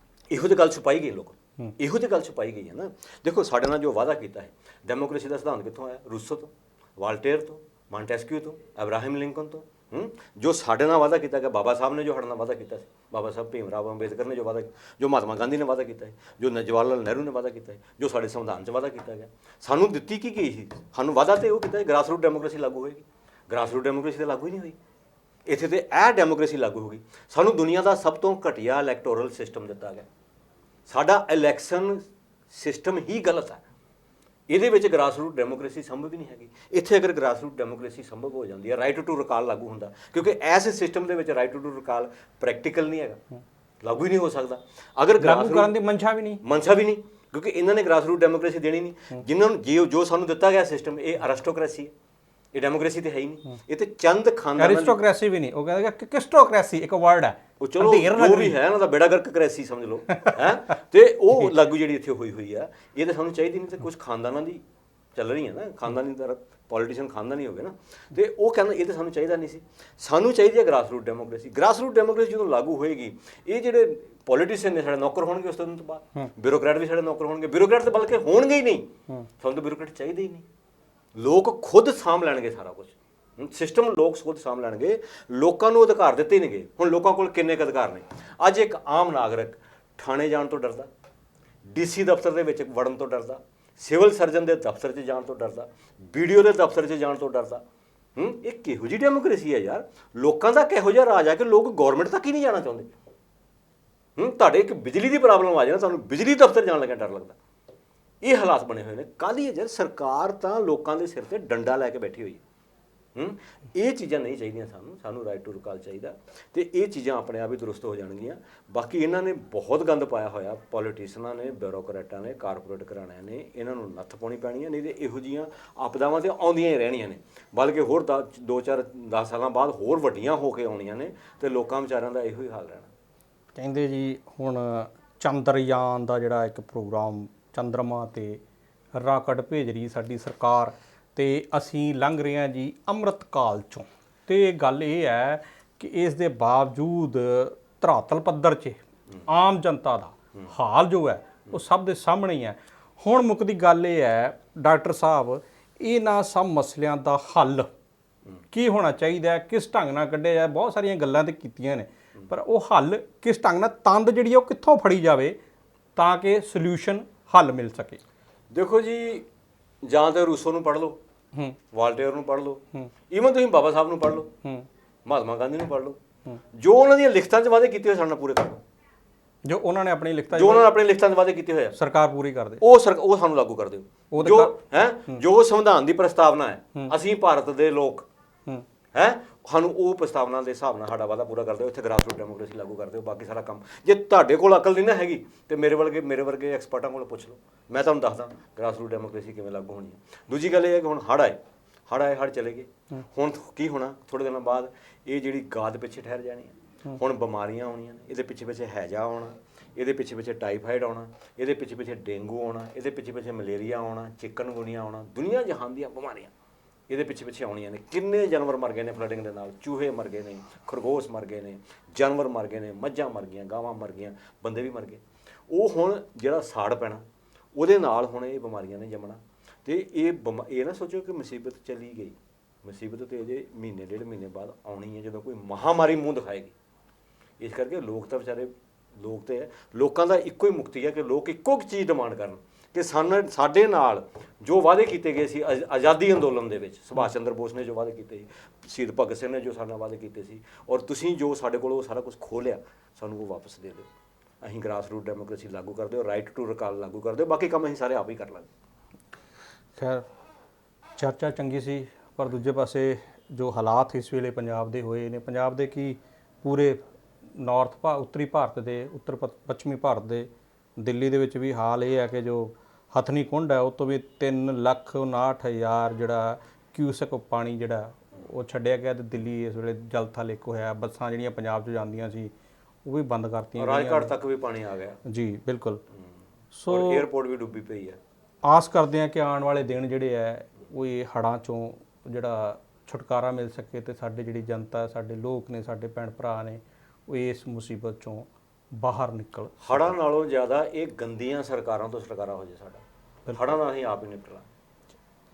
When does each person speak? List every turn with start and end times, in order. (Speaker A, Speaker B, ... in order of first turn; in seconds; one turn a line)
Speaker A: 0.3-24.8
Speaker A: 25.5-30.1
Speaker A: 30.9-33.6
Speaker A: 34.5-43.2
Speaker A: 43.8-45.7
Speaker B: 45.2-46.4
Speaker A: 46.4-51.9
Speaker A: 52.5-55.0
Speaker B: 54.6-58.6
Speaker A: 57.6-64.6
Speaker A: 65.2-78.9
Speaker A: 79.4-80.5
Speaker A: 81.2-90.9
Speaker A: 91.7-97.6
Speaker A: 98.2-102.9
Speaker A: 104.2-107.4
Speaker A: 108.2-112.4
Speaker A: 113.2-132.9
Speaker B: 133.6-138.4
Speaker B: 139.0-157.7
Speaker B: 158.5-165.4
Speaker B: 166.0-168.0
Speaker A: 168.5-169.3
Speaker A: 169.8-171.0
Speaker A: 171.7-174.3
Speaker A: 175.1-176.0
Speaker A: 176.5-178.6
Speaker B: 179.4-180.7
Speaker A: 180.3-181.8
Speaker B: 181.8-182.6
Speaker A: 182.6-188.1
Speaker B: 184.1-184.5
Speaker A: 188.9-216.3
Speaker A: 216.9-227.0
Speaker A: 227.6-236.6
Speaker A: 237.4-253.9
Speaker A: 254.4-258.5
Speaker B: 259.8-260.1
Speaker B: 261.0-266.8
Speaker B: 267.3-282.3
Speaker B: 282.9-284.1
Speaker A: 283.6-285.0
Speaker B: 285.1-285.8
Speaker B: 286.5-287.1
Speaker A: 286.7-288.0
Speaker B: 288.4-299.9
Speaker A: 299.6-304.5
Speaker B: 303.3-303.5